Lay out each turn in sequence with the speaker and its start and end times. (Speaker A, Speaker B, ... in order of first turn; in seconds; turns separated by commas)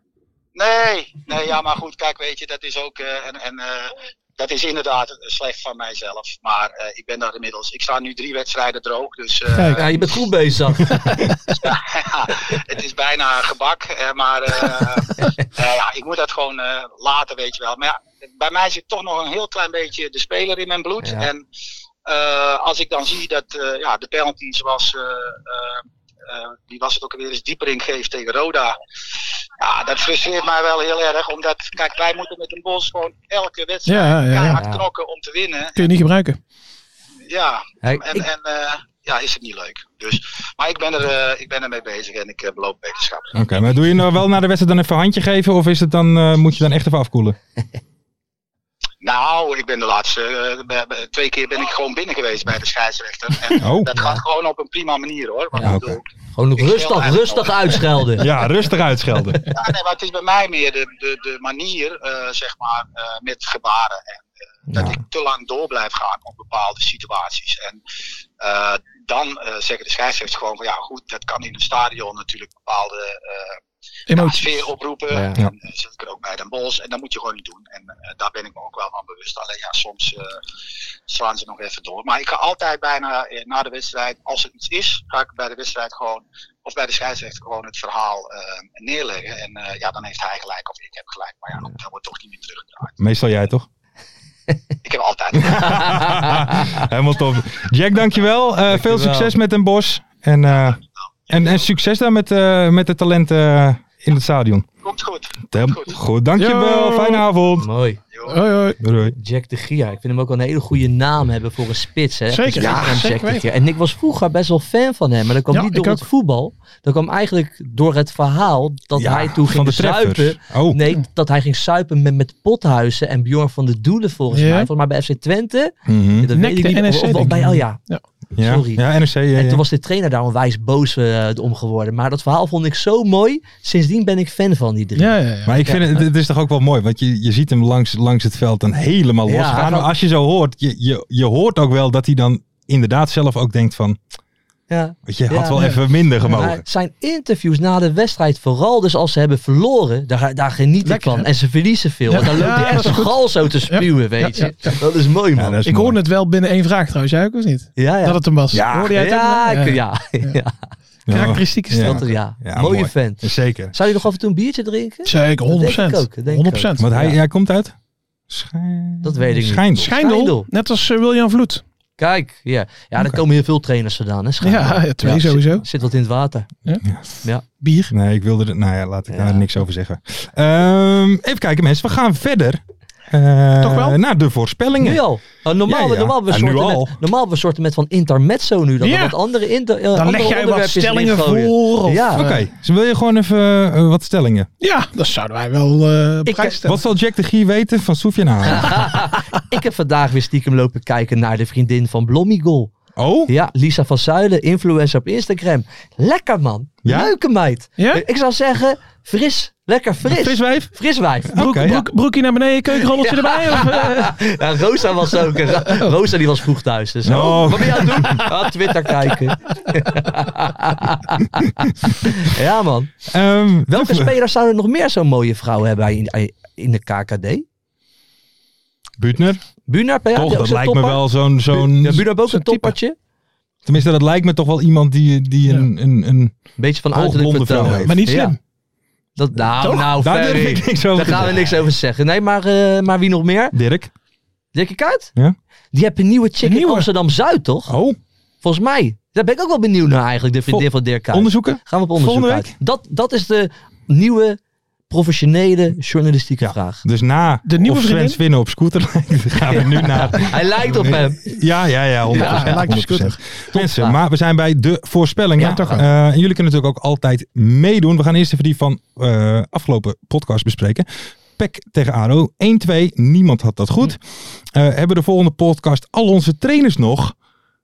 Speaker A: 0.5-9.9, Speaker B: 9.5-9.8, Speaker C: 9.7-11.1, Speaker B: 10.9-11.2, Speaker A: 11.6-21.4, Speaker C: 21.0-21.3, Speaker A: 22.1-28.8, Speaker A: 29.6-35.9, Speaker B: 33.9-34.6, Speaker C: 34.5-34.8, Speaker B: 35.8-36.4, Speaker A: 37.3-43.4, Speaker C: 37.8-38.2, Speaker D: 43.3-47.4, Speaker A: 49.0-56.0, Speaker D: 53.5-53.9, Speaker C: 53.9-54.2, Speaker D: 55.6-56.0, Speaker C: 56.3-58.2, Speaker A: 56.6-57.9, Speaker D: 58.2-59.5, Speaker A: 59.5-67.8, Speaker A: 68.4-73.6, Speaker B: 74.1-74.7, Speaker A: 74.1-80.4, Speaker C: 75.1-75.4, Speaker A: 81.1-92.9, Speaker D: 93.0-93.7, Speaker A: 94.8-96.2, Speaker D: 95.4-104.7, Speaker C: 98.7-99.3, Speaker A: 100.5-101.5, Speaker A: 104.8-106.0, Speaker D: 105.5-107.7, Speaker B: 106.4-107.2, Speaker C: 107.6-108.0, Speaker A: 108.1-108.4, Speaker B: 108.3-108.8, Speaker D: 108.8-109.2, Speaker C: 109.2-127.8, Speaker B: 112.3-113.4, Speaker B: 115.5-116.0, Speaker D: 119.0-120.8, Speaker B: 124.3-124.7, Speaker D: 125.9-126.3, Speaker B: 126.3-128.0, Speaker D: 128.3-129.6, Speaker C: 128.4-128.8, Speaker C: 129.3-135.8, Speaker B: 135.0-135.6, Speaker D: 135.4-144.0, Speaker C: 139.2-139.9, Speaker C: 144.7-145.7, Speaker D: 145.1-146.6, Speaker C: 146.2-155.6, Speaker B: 150.8-151.3, Speaker B: 152.1-154.8, Speaker D: 155.4-156.0, Speaker B: 155.6-160.3, Speaker C: 157.8-160.6, Speaker D: 158.5-159.0, Speaker D: 161.1-163.7, Speaker B: 161.1-162.1, Speaker C: 161.8-167.2, Speaker B: 165.1-166.9, Speaker D: 166.8-167.7, Speaker D: 168.3-169.9, Speaker C: 169.0-170.5, Speaker B: 169.8-171.6, Speaker C: 172.0-176.5, Speaker B: 174.4-175.6, Speaker B: 177.6-177.9, Speaker D: 177.9-185.0, Speaker C: 179.1-179.4, Speaker B: 183.6-184.0, Speaker C: 184.8-192.2, Speaker D: 185.7-187.0, Speaker B: 188.8-189.2, Speaker B: 189.9-192.4, Speaker D: 192.1-194.5, Speaker B: 194.6-196.8, Speaker C: 196.2-196.6, Speaker D: 196.6-198.9, Speaker C: 198.5-202.7, Speaker D: 202.9-203.3, Speaker C: 203.3-211.9, Speaker D: 206.8-207.1, Speaker D: 210.1-210.7, Speaker D: 211.3-211.8, Speaker B: 211.4-214.2, Speaker C: 212.9-222.9, Speaker D: 217.0-218.3, Speaker D: 223.1-224.1, Speaker C: 223.7-227.4, Speaker D: 229.0-229.4, Speaker C: 229.7-232.9, Speaker D: 230.1-232.1, Speaker B: 232.3-232.7, Speaker D: 233.6-236.4, Speaker C: 236.6-238.3, Speaker D: 236.9-238.2, Speaker B: 237.8-238.4, Speaker C: 239.2-243.5, Speaker B: 239.6-239.9, Speaker D: 239.6-241.6, Speaker D: 243.5-243.9, Speaker C: 244.5-245.1, Speaker C: 245.7-247.7, Speaker B: 246.4-246.9, Speaker D: 247.7-248.0, Speaker C: 248.4-254.4, Speaker D: 250.5-252.5, Speaker C: 254.9-256.8, Speaker D: 256.4-277.1, Speaker B: 257.4-258.2, Speaker C: 259.4-261.2, Speaker B: 262.1-263.2, Speaker C: 262.1-262.7, Speaker C: 263.5-263.9, Speaker C: 265.4-265.8, Speaker B: 265.4-265.8